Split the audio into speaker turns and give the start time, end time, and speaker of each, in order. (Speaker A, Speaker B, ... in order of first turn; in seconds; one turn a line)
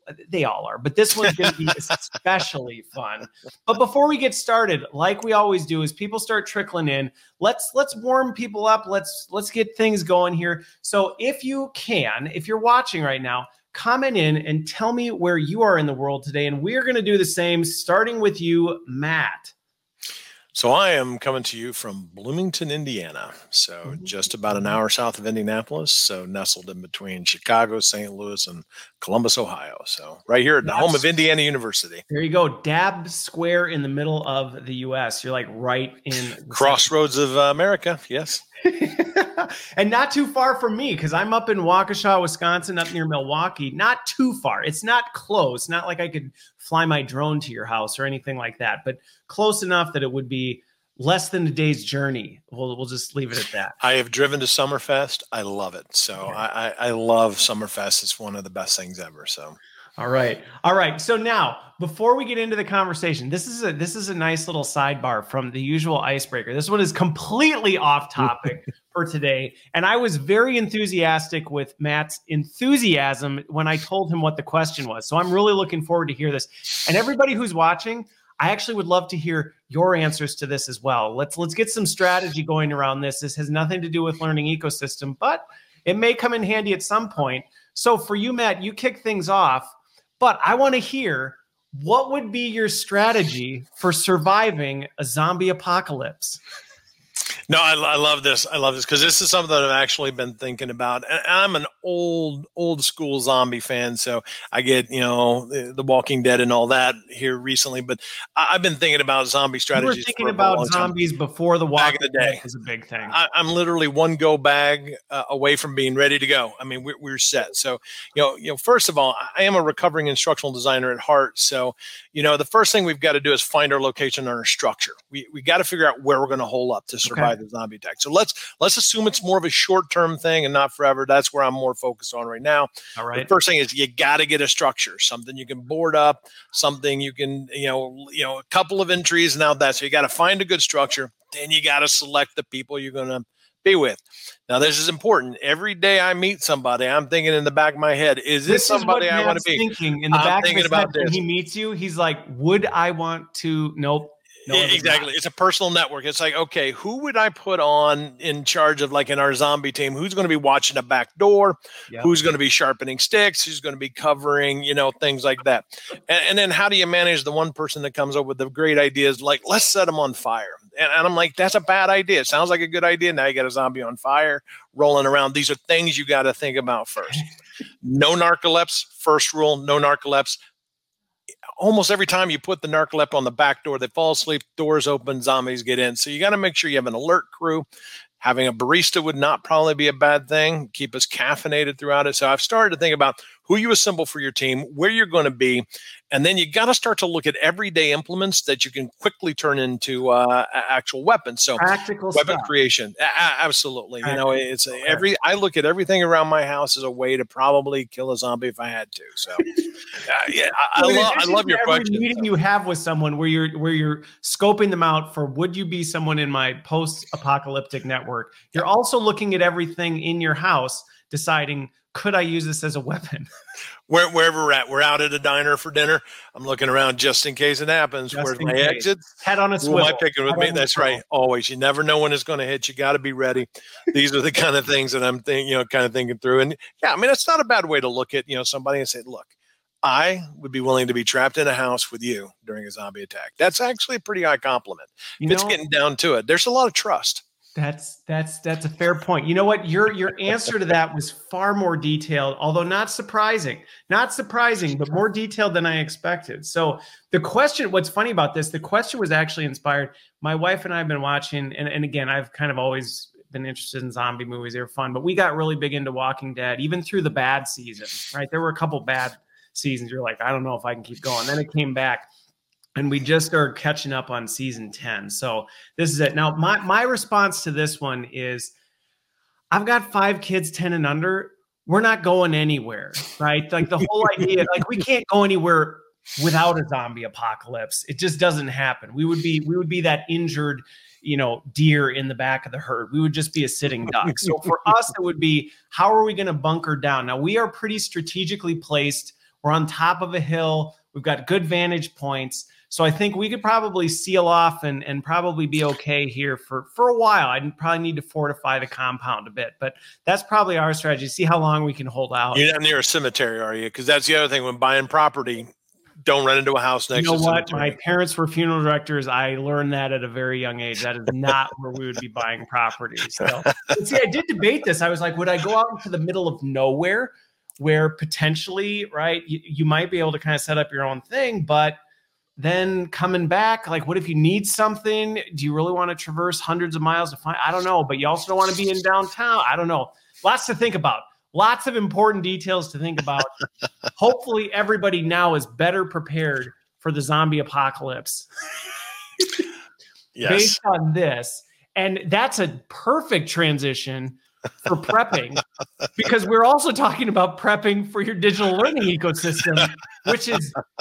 Speaker A: 0.2-19.5
Speaker B: 20.5-32.0
Speaker A: 30.6-31.0
Speaker A: 32.1-36.8
Speaker B: 36.5-38.4
Speaker A: 38.6-53.8
Speaker B: 53.8-59.6
Speaker A: 60.0-96.4
Speaker B: 97.5-110.9
Speaker A: 109.7-113.2
Speaker B: 111.8-112.4
Speaker B: 113.1-151.2
Speaker A: 127.0-127.3
Speaker A: 133.0-133.3
Speaker A: 148.5-155.1
Speaker B: 154.5-177.3
Speaker B: 177.8-180.3
Speaker B: 181.6-187.6
Speaker B: 188.2-212.2
Speaker A: 201.6-202.5
Speaker A: 204.0-205.0
Speaker A: 210.7-223.3
Speaker B: 223.9-239.3
Speaker A: 228.1-231.0
Speaker B: 239.8-247.2
Speaker A: 245.2-245.6
Speaker A: 247.5-272.1
Speaker A: 272.8-278.5
Speaker A: 279.5-312.4
Speaker B: 312.3-315.5
Speaker B: 316.0-317.8
Speaker A: 316.9-331.8
Speaker A: 332.4-343.3
Speaker A: 343.9-348.3
Speaker B: 350.1-350.6
Speaker A: 350.2-355.4
Speaker A: 355.9-360.6